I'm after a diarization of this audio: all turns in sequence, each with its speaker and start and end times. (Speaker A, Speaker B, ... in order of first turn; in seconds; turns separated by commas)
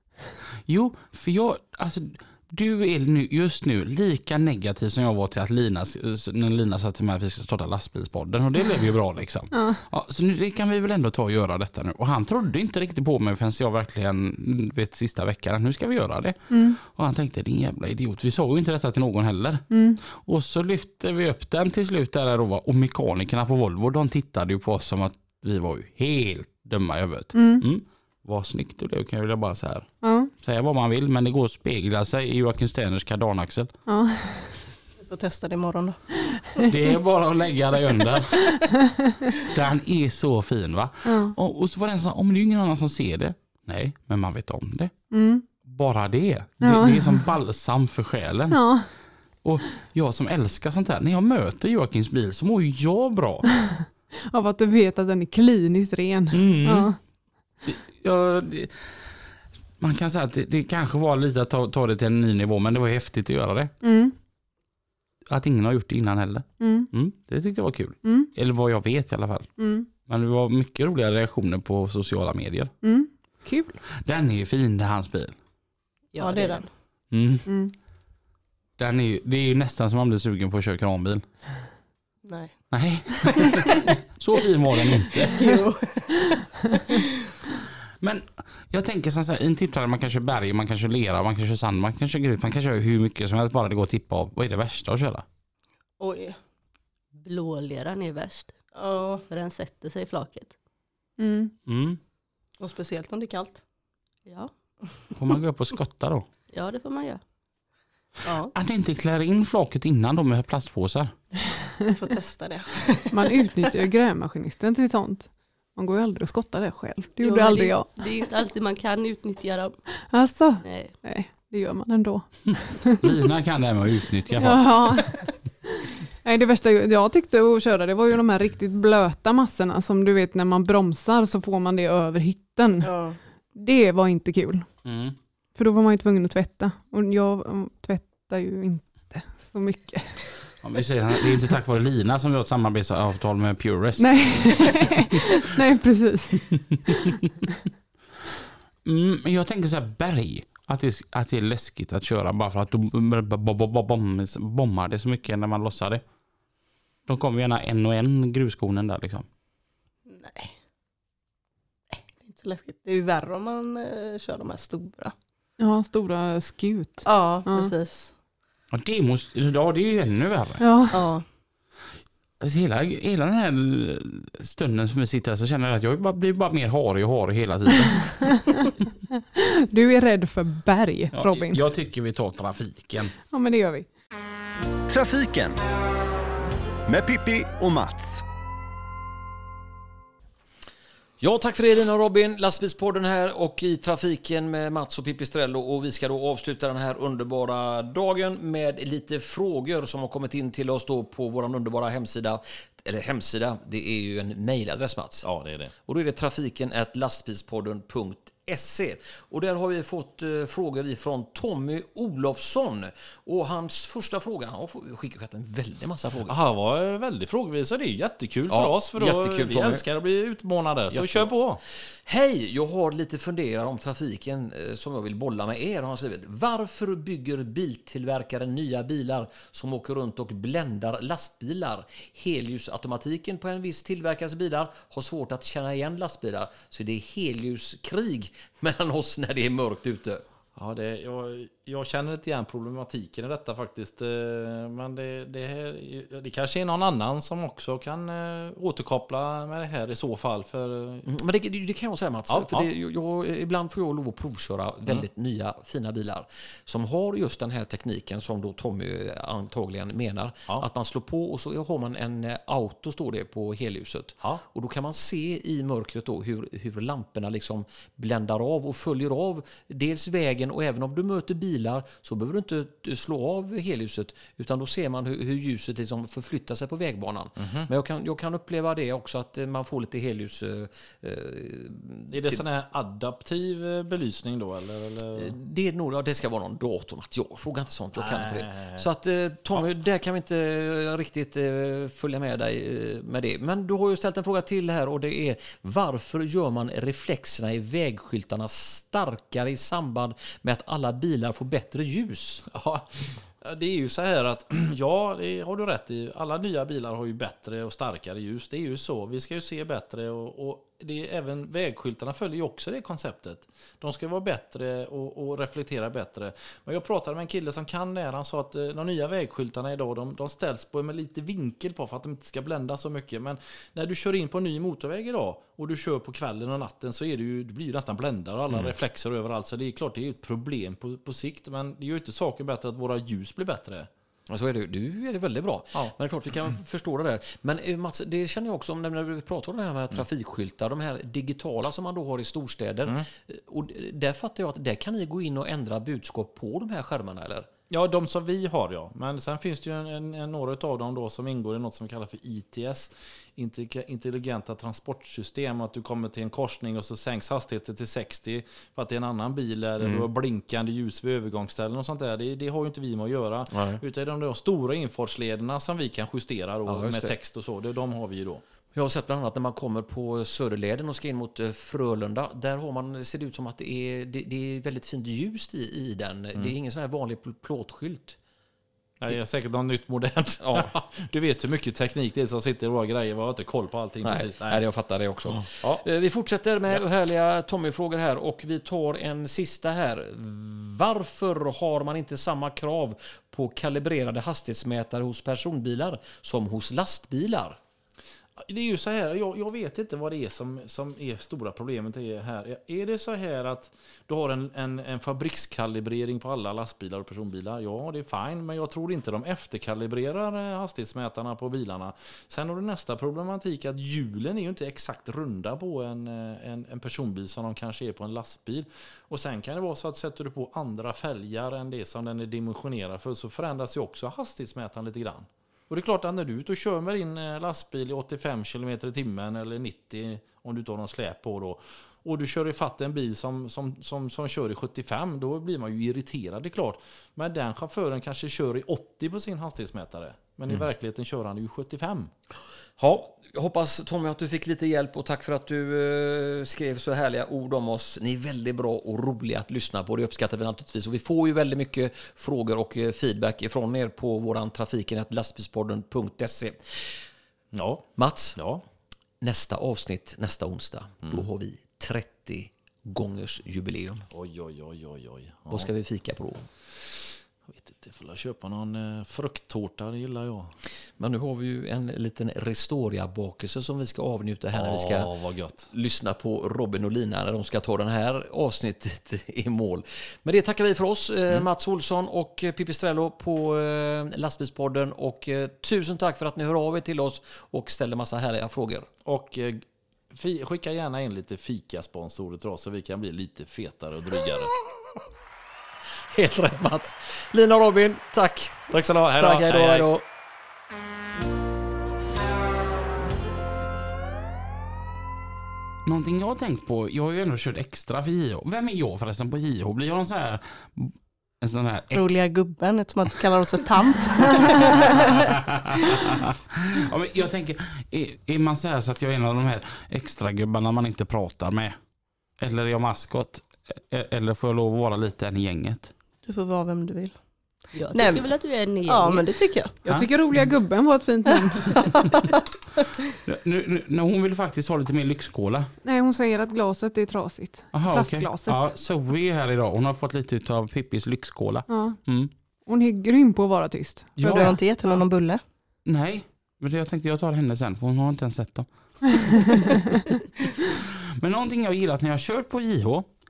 Speaker A: 0.6-29.9, Speaker B: 9.5-9.8, Speaker B: 16.5-16.8, Speaker B: 19.7-20.0, Speaker B: 27.3-27.6, Speaker B: 30.0-30.3, Speaker A: 30.4-33.7, Speaker B: 33.9-34.5, Speaker C: 35.0-36.0, Speaker A: 36.6-38.7, Speaker B: 38.7-39.1, Speaker A: 39.4-44.9, Speaker B: 41.0-41.3, Speaker B: 45.1-45.4, Speaker A: 45.6-48.7, Speaker B: 46.6-47.2, Speaker B: 48.5-48.9, Speaker A: 49.4-53.5, Speaker B: 54.3-57.0, Speaker A: 56.3-56.9, Speaker A: 57.6-59.2, Speaker A: 59.8-63.7, Speaker B: 63.8-64.1, Speaker A: 65.3-72.7, Speaker B: 66.6-66.9, Speaker B: 68.0-68.3, Speaker B: 69.6-69.9, Speaker B: 72.8-73.8, Speaker A: 74.0-75.3, Speaker D: 76.1-76.6, Speaker C: 76.2-76.7, Speaker A: 77.1-77.5, Speaker B: 77.5-77.7, Speaker A: 78.8-81.2, Speaker C: 82.2-82.5, Speaker A: 82.7-85.6, Speaker C: 83.2-83.5, Speaker C: 85.3-87.0, Speaker A: 88.0-95.2, Speaker C: 96.0-96.4, Speaker D: 97.2-98.5, Speaker C: 98.7-99.2, Speaker D: 99.3-100.5, Speaker B: 101.2-101.5, Speaker A: 101.7-102.0, Speaker C: 102.6-103.6, Speaker D: 104.2-104.5, Speaker A: 105.2-106.2, Speaker D: 106.5-107.2, Speaker C: 108.2-108.5, Speaker A: 108.5-111.1, Speaker C: 111.9-113.2, Speaker B: 113.1-117.9, Speaker D: 117.2-119.7, Speaker B: 120.1-123.0, Speaker D: 120.6-120.9, Speaker A: 123.0-125.0, Speaker B: 124.4-132.9, Speaker C: 132.8-133.2, Speaker B: 133.5-134.7, Speaker A: 134.8-135.2, Speaker B: 135.6-140.2, Speaker A: 140.6-145.2, Speaker B: 144.0-147.2, Speaker A: 148.8-156.0, Speaker A: 157.1-159.2, Speaker C: 160.1-160.5, Speaker C: 161.9-165.1, Speaker B: 165.6-167.7, Speaker C: 167.0-168.1, Speaker A: 168.7-170.6, Speaker B: 170.6-171.0, Speaker C: 170.9-171.2, Speaker A: 172.4-178.6, Speaker B: 179.3-181.6, Speaker A: 181.1-183.1, Speaker B: 183.3-183.9, Speaker E: 184.9-185.6, Speaker E: 186.9-188.2, Speaker F: 191.2-205.3, Speaker G: 205.2-205.7, Speaker F: 205.9-216.3, Speaker G: 216.2-221.6, Speaker F: 218.5-219.8, Speaker F: 220.9-221.3, Speaker F: 222.1-240.2, Speaker G: 240.6-251.1, Speaker F: 251.1-282.5, Speaker G: 252.3-252.7, Speaker G: 277.4-277.7, Speaker G: 282.1-285.3, Speaker F: 285.1-302.4, Speaker G: 288.0-288.8, Speaker G: 302.5-302.9, Speaker G: 303.4-333.9, Speaker F: 334.3-347.5, Speaker G: 347.7-368.4, Speaker F: 359.8-360.1, Speaker F: 363.5-363.8, Speaker F: 366.6-367.1, Speaker F: 368.7-378.1, Speaker G: 379.0-384.6, Speaker F: 380.4-380.7, Speaker F: 384.0-397.6, Speaker G: 385.3-385.8, Speaker G: 398.4-442.1, Speaker F: 442.8-457.0, Speaker G: 457.5-457.8, Speaker F: 458.0-458.4, Speaker G: 458.4-458.6, Speaker F: 459.2-464.1, Speaker G: 464.1-465.7, Speaker F: 465.5-466.5, Speaker G: 467.5-470.5, Speaker F: 471.0-475.1, Speaker G: 474.5-475.7, Speaker F: 475.7-488.9, Speaker G: 489.1-494.5, Speaker F: 496.1-500.0, Speaker G: 498.7-499.9, Speaker A: 505.9-512.2, Speaker C: 511.9-515.3, Speaker A: 514.5-521.8, Speaker A: 522.4-525.9, Speaker C: 526.2-527.2, Speaker D: 527.7-529.3, Speaker C: 527.9-528.3, Speaker C: 528.8-529.7, Speaker B: 529.8-531.9, Speaker C: 531.8-532.3, Speaker A: 533.2-535.7, Speaker B: 535.8-538.7, Speaker A: 537.7-542.3, Speaker B: 541.7-542.0, Speaker B: 542.6-544.5, Speaker A: 544.2-544.6, Speaker C: 544.2-545.4, Speaker A: 545.8-548.7, Speaker B: 549.5-550.0, Speaker A: 550.7-553.1